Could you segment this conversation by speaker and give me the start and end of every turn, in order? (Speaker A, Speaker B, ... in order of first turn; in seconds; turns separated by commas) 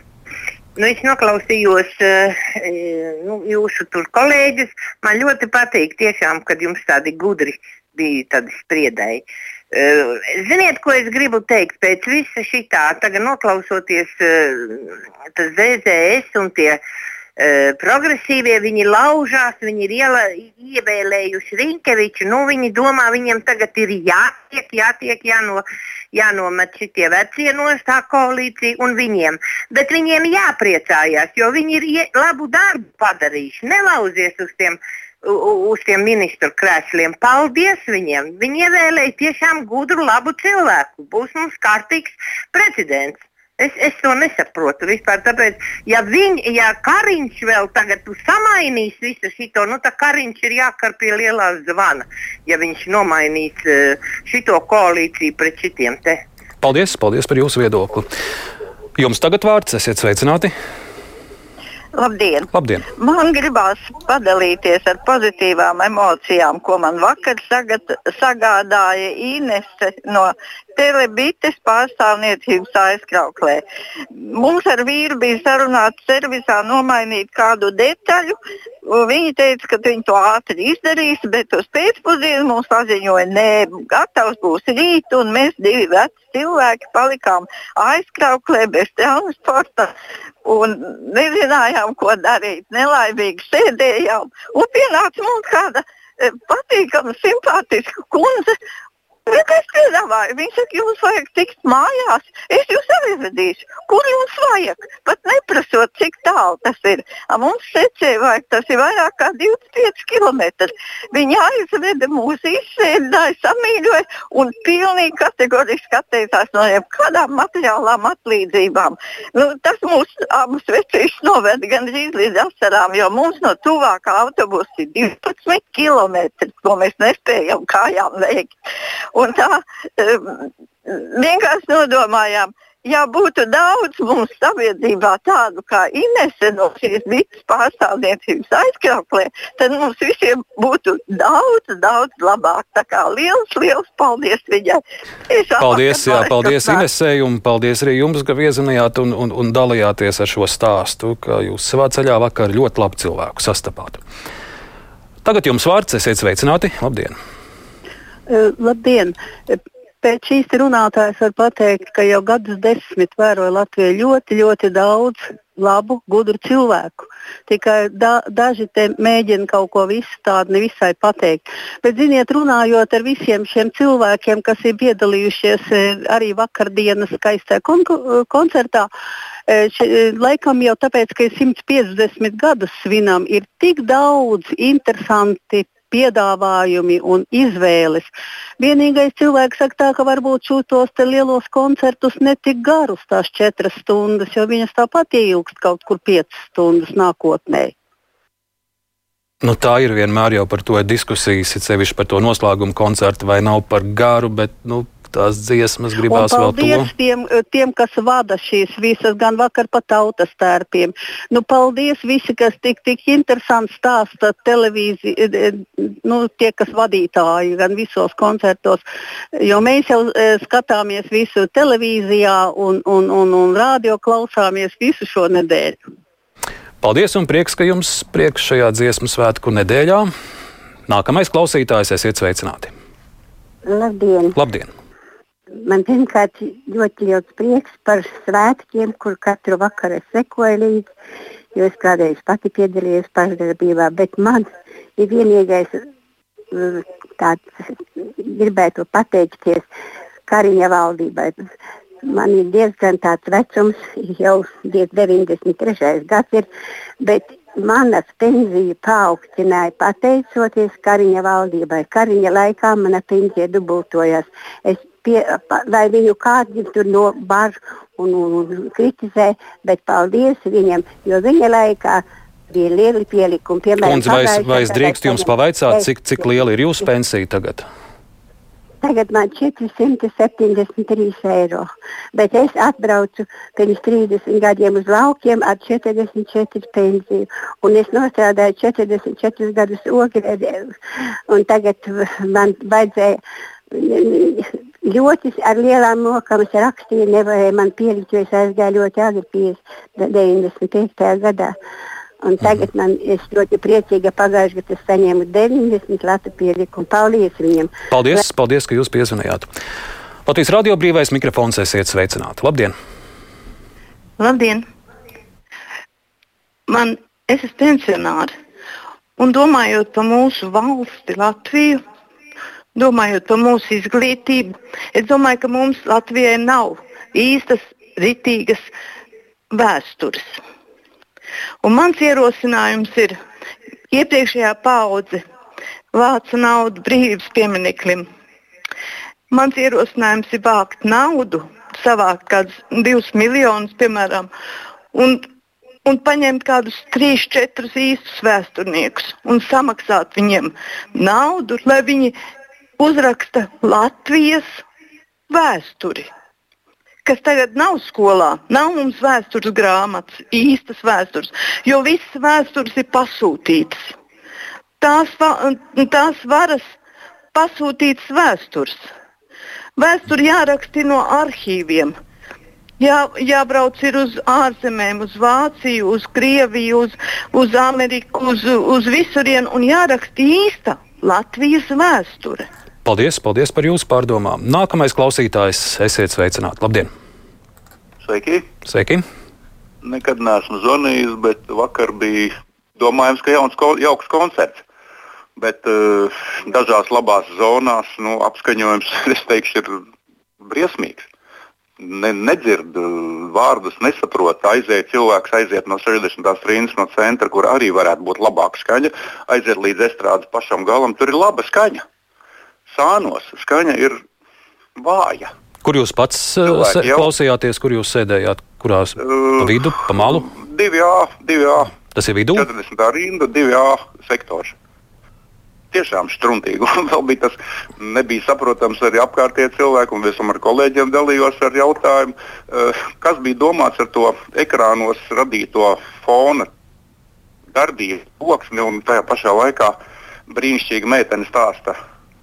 Speaker A: 0.8-16.8, Speaker A: 17.4-56.2, Speaker B: 56.6-58.0, Speaker B: 59.0-60.5, Speaker C: 61.9-73.6, Speaker B: 62.5-62.8, Speaker C: 74.3-89.9, Speaker C: 90.4-98.5, Speaker C: 99.3-128.5, Speaker C: 129.1-146.8, Speaker B: 145.6-154.0, Speaker B: 155.2-157.2, Speaker D: 158.3-178.9, Speaker D: 179.5-197.7, Speaker B: 199.4-206.9, Speaker D: 206.1-218.8, Speaker D: 219.3-225.8, Speaker B: 226.8-230.1, Speaker B: 230.9-232.7, Speaker E: 233.7-234.4, Speaker B: 234.3-234.7, Speaker E: 235.6-240.9, Speaker E: 241.5-244.4, Speaker E: 245.0-245.8, Speaker E: 246.5-247.4, Speaker E: 248.2-249.6, Speaker E: 250.3-251.3, Speaker E: 252.0-256.4, Speaker E: 257.0-275.9, Speaker B: 273.8-277.6, Speaker E: 278.8-290.7, Speaker E: 291.3-293.2, Speaker E: 293.7-301.5, Speaker E: 302.2-308.1, Speaker B: 307.9-309.5, Speaker B: 310.2-312.7, Speaker F: 314.2-314.6, Speaker F: 316.7-318.3, Speaker F: 319.2-321.8, Speaker F: 322.7-328.6, Speaker F: 329.5-330.3, Speaker F: 331.6-333.2, Speaker F: 333.9-335.2, Speaker F: 335.9-338.1, Speaker F: 339.3-344.3, Speaker F: 344.9-345.3, Speaker F: 345.9-352.1, Speaker F: 352.8-354.5, Speaker F: 355.3-356.1, Speaker F: 357.0-363.9, Speaker F: 364.8-366.6, Speaker F: 367.3-368.8, Speaker F: 369.8-371.9, Speaker F: 372.8-382.5, Speaker B: 382.8-386.9, Speaker G: 388.0-388.5, Speaker B: 388.6-389.0, Speaker G: 389.8-394.6, Speaker G: 395.4-399.8, Speaker G: 400.4-401.1, Speaker G: 401.8-411.8, Speaker G: 412.7-414.0, Speaker G: 414.8-415.3, Speaker B: 415.6-420.3, Speaker G: 416.5-417.1, Speaker G: 419.1-421.7, Speaker B: 421.8-422.5, Speaker G: 422.4-424.5, Speaker G: 425.7-436.5, Speaker G: 437.5-441.8